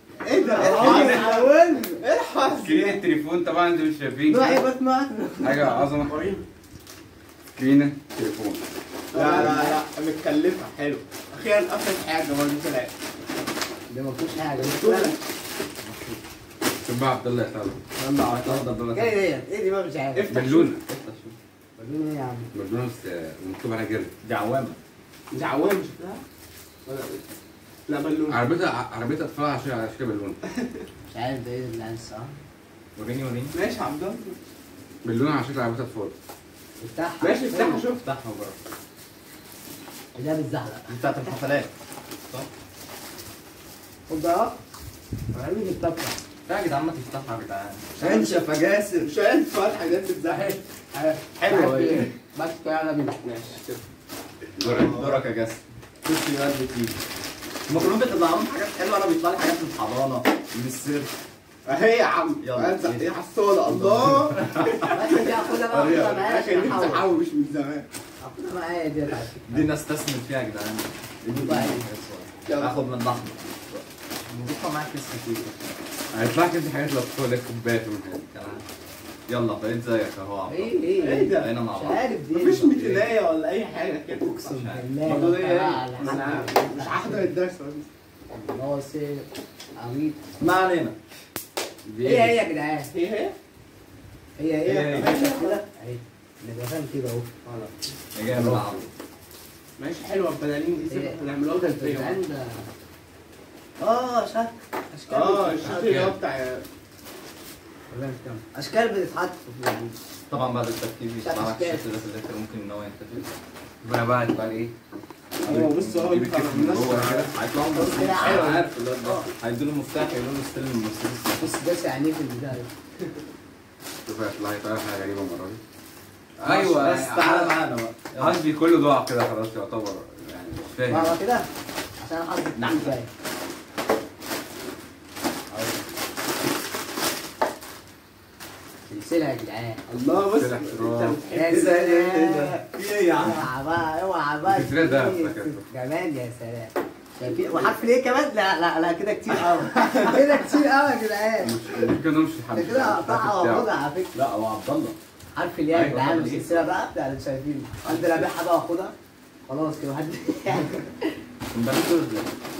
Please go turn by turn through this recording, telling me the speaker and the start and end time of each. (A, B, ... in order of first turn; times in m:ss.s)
0:00.2-0:03.0 A
0:00.3-0:02.0 B
0:00.6-0:01.3 C
0:02.5-0:04.6 C
0:04.2-0:05.9 B
0:05.4-0:06.2 C
0:06.0-0:06.4 A
0:07.5-0:08.6 C
0:09.1-0:09.8 B
0:09.1-0:12.9 A
0:13.9-0:15.2 B
0:14.6-0:15.2 A
0:15.8-0:16.2 D
0:16.8-0:17.8 C
0:18.0-0:18.6 A
0:18.2-0:19.2 D
0:18.9-0:20.3 B
0:20.1-0:20.7 A
0:20.3-0:20.8 C
0:20.8-0:21.4 D
0:21.8-0:22.5 B
0:22.5-0:24.1 C
0:24.2-0:24.8 D
0:25.3-0:26.2 A
0:26.8-0:27.2 A
0:27.9-0:28.4 A
0:28.3-0:30.4 C
0:30.6-0:30.8 A
0:31.1-0:32.3 B
0:33.0-0:33.5 D
0:33.5-0:34.4 A
0:35.0-0:36.1 C
0:36.8-0:37.8 B
0:37.2-0:38.1 A
0:38.0-0:38.6 D
0:40.1-0:41.0 B
0:40.9-0:41.7 D
0:44.1-0:44.6 B
0:45.3-0:46.1 B
0:46.5-0:49.1 D
0:48.0-0:48.5 A
0:49.0-0:50.6 A
0:50.3-0:53.2 B
0:51.4-0:52.1 A
0:53.2-0:53.8 A
0:54.6-0:54.9 C
0:54.6-0:57.0 D
0:54.6-0:55.2 A
0:57.7-1:01.1 D
1:01.6-1:07.9 A
1:02.4-1:03.1 D
1:03.6-1:04.7 D
1:04.8-1:07.1 B
1:08.2-1:09.6 B
1:09.5-1:15.8 D
1:11.3-1:11.8 B
1:12.4-1:12.8 A
1:16.1-1:18.2 C
1:18.3-1:18.6 D
1:19.3-1:20.8 D
1:20.5-1:22.7 B
1:21.0-1:21.5 A
1:21.3-1:22.0 D
1:22.3-1:27.9 A
1:22.8-1:23.0 C
1:24.3-1:24.8 D
1:24.6-1:27.3 B
1:28.3-1:30.3 B
1:30.4-1:31.0 D
1:31.8-1:32.3 C
1:32.0-1:32.9 B
1:32.9-1:33.3 A
1:34.4-1:37.3 B
1:34.6-1:35.2 D
1:34.9-1:35.6 A
1:37.4-1:37.7 A
1:38.1-1:38.9 D
1:38.3-1:38.7 C
1:39.8-1:42.2 A
1:40.9-1:42.7 B
1:43.8-1:45.9 B
1:45.1-1:46.6 A
1:45.6-1:46.2 C
1:47.9-1:50.0 B
1:50.3-1:53.4 D
1:51.2-1:51.8 B
1:53.8-1:54.7 C
1:55.4-1:57.3 C
1:55.4-1:57.4 A
1:55.5-1:56.2 D
1:57.3-2:01.5 D
1:57.7-1:59.3 B
1:58.2-1:58.6 A
2:01.4-2:02.7 B
2:04.0-2:05.6 C
2:06.4-2:07.6 C
2:06.4-2:08.4 D
2:08.2-2:11.2 C
2:10.9-2:11.5 B
2:12.0-2:13.1 B
2:12.6-2:12.9 D
2:15.5-2:15.8 C
2:18.9-2:19.8 B
2:19.9-2:22.6 A
2:20.2-2:21.2 C
2:21.3-2:22.6 B
2:22.7-2:23.4 D
2:23.2-2:31.6 B
2:24.4-2:25.7 C
2:31.4-2:33.7 C
2:32.5-2:34.1 B
2:34.1-2:35.0 D
2:35.3-2:38.9 B
2:35.7-2:36.6 C
2:39.4-2:40.7 B
2:41.5-2:42.3 D